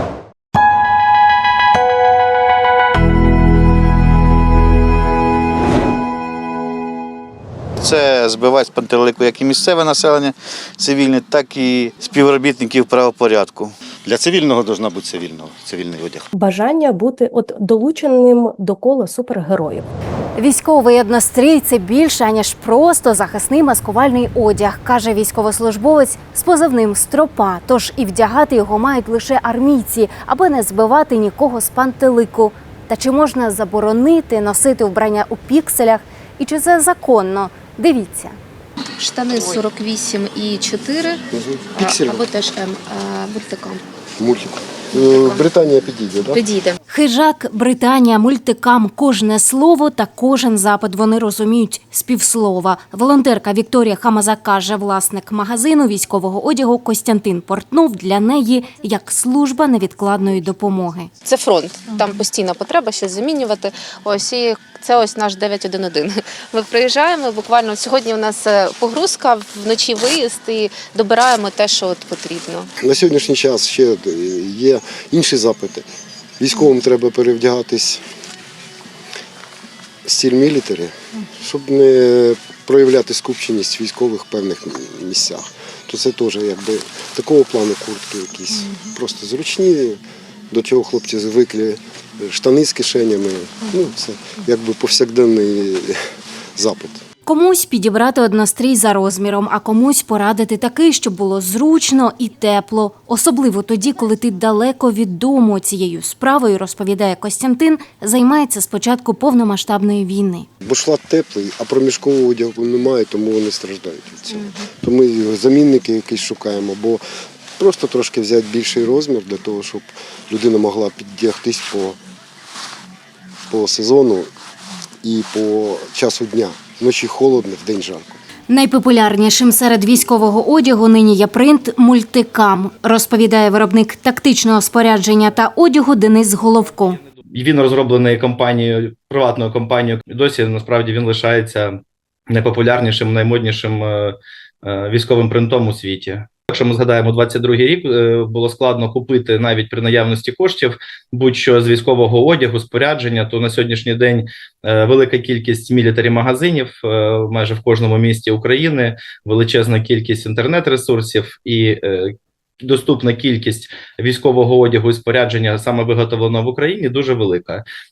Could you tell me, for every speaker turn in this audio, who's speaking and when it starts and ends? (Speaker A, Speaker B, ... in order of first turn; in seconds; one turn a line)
Speaker A: 7.8-13.7
Speaker B: 14.1-16.2
Speaker C: 16.3-19.9
Speaker D: 20.4-38.4
Speaker E: 39.0-41.2
Speaker F: 41.3-42.2
Speaker E: 41.7-43.8
Speaker F: 44.2-46.4
Speaker E: 44.9-45.4
Speaker E: 46.3-46.8
Speaker D: 46.9-61.1
Speaker E: 61.2-72.7
Speaker F: 72.8-75.8
Speaker F: 76.4-78.0
Speaker F: 80.0-90.0
Speaker F: 90.5-96.0
Speaker F: 96.5-97.0
Speaker D: 97.2-110.5
Speaker F: 110.6-117.0
Speaker F: 117.6-122.0
Speaker F: 123.5-124.3
Speaker F: 125.0-128.2
Speaker D: 128.5-137.0
Speaker G: 137.3-141.7
Speaker G: 142.3-162.1
Speaker G: 162.6-167.6